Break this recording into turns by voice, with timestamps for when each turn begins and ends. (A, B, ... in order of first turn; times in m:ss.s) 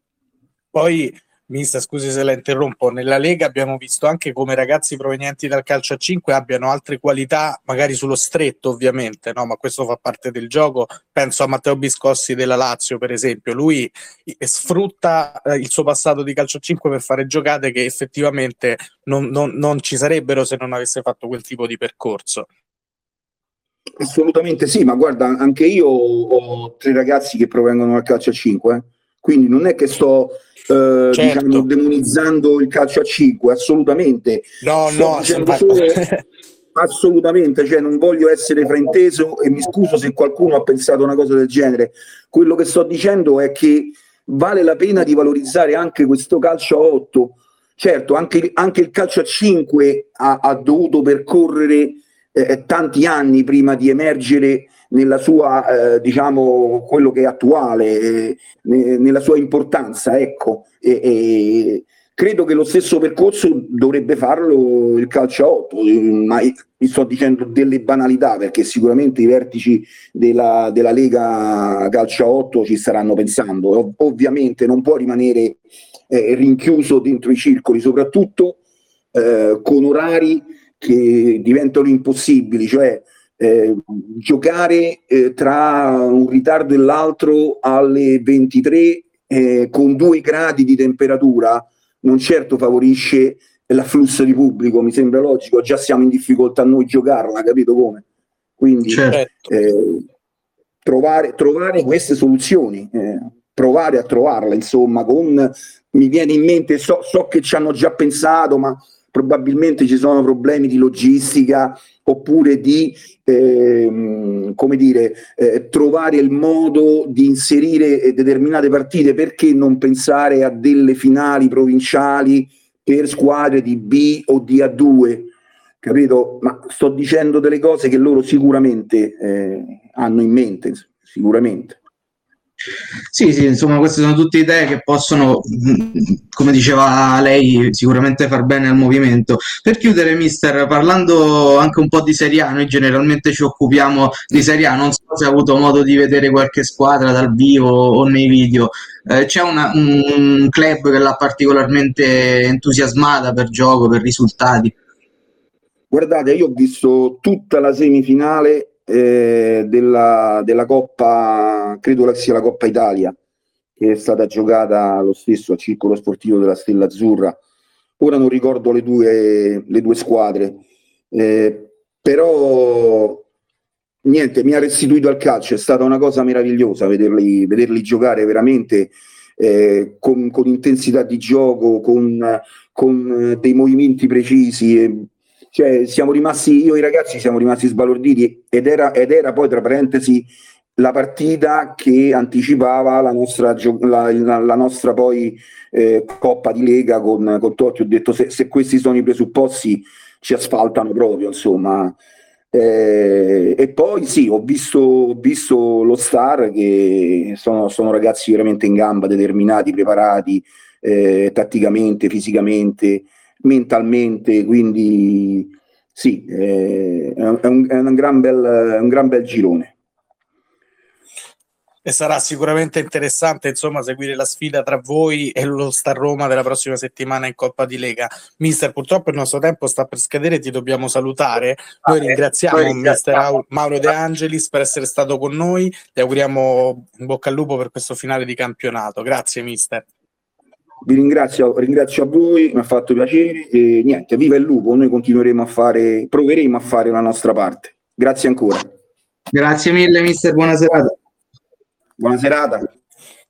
0:00.7-0:22.5 A
0:24.0-0:36.0 B
0:31.1-0:31.7 A
0:34.6-0:36.2 A
0:36.7-1:18.6 B
1:19.1-1:38.0 B
1:38.6-1:40.0 B
1:38.9-1:39.2 C
1:40.8-2:11.8 B
2:13.1-2:34.7 C
2:35.9-2:43.2 B
2:43.8-2:47.4 B
2:48.0-2:53.2 B
2:54.0-3:22.0 B
3:22.5-3:39.7 B
3:41.8-3:59.8 A
4:00.8-4:08.7 B
4:09.3-4:10.9 C
4:12.0-4:12.7 B